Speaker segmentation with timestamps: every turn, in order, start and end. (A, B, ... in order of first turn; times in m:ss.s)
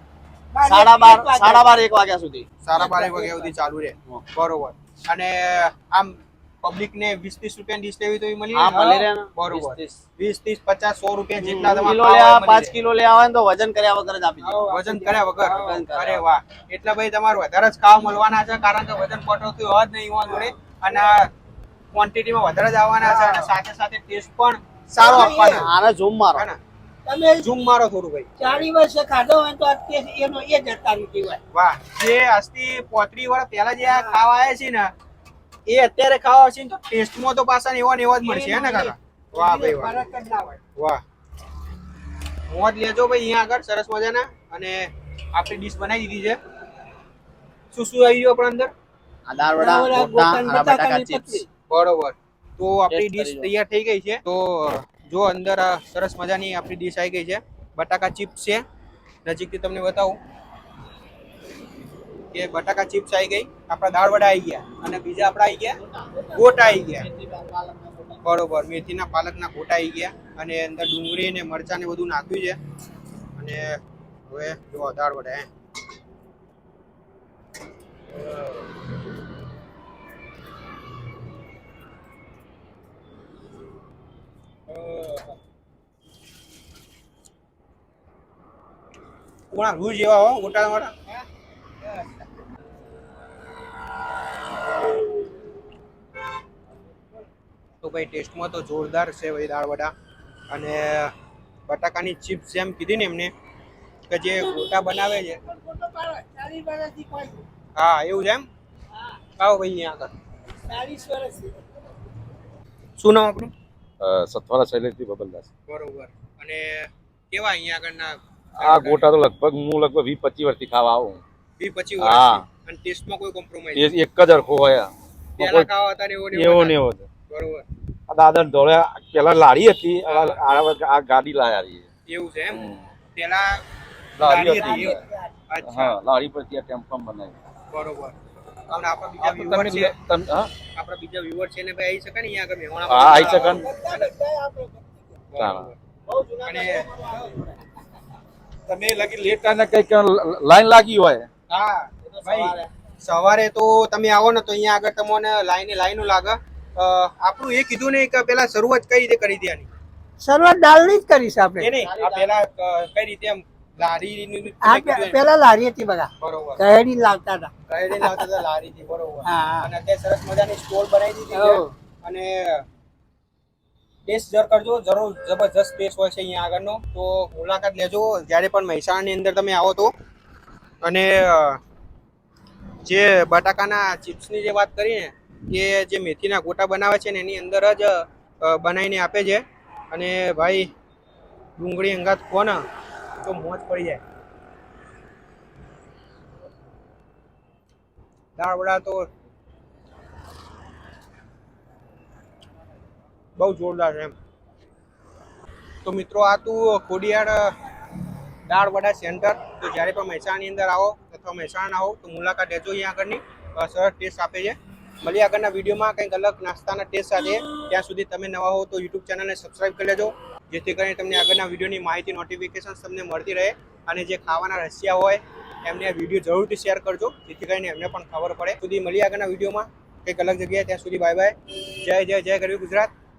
0:00.5-0:01.8 A
0:00.6-0:03.0 B
0:02.6-0:12.7 C
0:02.8-0:03.5 A
0:08.5-0:10.0 B
0:11.4-0:14.7 B
0:14.4-0:15.7 A
0:14.5-0:21.3 C
0:15.4-0:16.2 B
0:21.9-0:25.7 C
0:23.0-0:23.5 A
0:25.0-0:25.7 A
0:25.0-0:26.5 B
0:27.1-0:27.5 A
0:27.4-0:28.3 C
0:28.4-0:31.4 A
0:31.5-0:34.9 C
0:33.8-0:34.2 A
0:35.7-0:40.1 C
0:38.2-0:40.6 A
0:40.7-0:41.0 C
0:42.5-0:46.4 C
0:47.7-0:48.7 C
0:49.3-0:51.4 B
0:49.6-0:51.5 A
0:51.7-0:58.6 C
0:52.9-0:53.5 B
0:59.2-1:00.2 C
1:02.3-1:05.8 C
1:05.8-1:08.2 B
1:06.3-1:07.1 C
1:08.2-1:12.6 C
1:13.4-1:13.8 C
1:14.3-1:15.5 C
1:24.7-1:25.3 C
1:29.5-1:31.0 C
1:37.8-1:39.9 C
1:40.5-1:41.1 C
1:41.7-1:43.3 C
1:44.1-1:45.4 C
1:45.5-1:47.4 A
1:47.8-1:48.5 C
1:49.4-1:50.1 C
1:50.6-1:51.6 A
1:53.0-1:53.5 C
1:54.0-1:55.5 D
1:55.7-1:59.1 C
1:58.6-2:01.2 D
2:01.6-2:04.0 C
2:02.0-2:02.4 D
2:03.7-2:05.7 D
2:05.4-2:07.6 C
2:06.3-2:07.0 D
2:08.1-2:11.9 D
2:10.1-2:10.4 C
2:12.1-2:12.6 C
2:12.5-2:12.8 D
2:13.1-2:13.6 C
2:14.2-2:15.0 D
2:14.2-2:16.0 C
2:14.5-2:15.2 A
2:15.6-2:17.3 D
2:17.7-2:18.2 C
2:18.7-2:19.9 C
2:19.2-2:20.5 D
2:20.7-2:24.1 C
2:22.9-2:23.7 D
2:23.1-2:25.2 A
2:25.3-2:25.8 C
2:25.4-2:25.7 D
2:26.1-2:27.5 B
2:26.4-2:26.9 C
2:28.7-2:31.3 D
2:31.5-2:39.7 C
2:32.0-2:32.7 B
2:40.2-2:41.7 A
2:41.6-2:45.2 C
2:41.8-2:42.3 B
2:44.6-2:48.3 A
2:46.2-2:46.6 C
2:47.7-2:52.7 C
2:49.2-2:49.7 A
2:51.3-2:51.7 A
2:54.0-2:59.9 C
3:00.8-3:01.6 C
3:02.8-3:10.7 C
3:11.6-3:12.6 C
3:13.2-3:14.0 C
3:18.4-3:19.1 C
3:23.4-3:24.2 C
3:25.8-3:27.5 C
3:28.5-3:52.9 C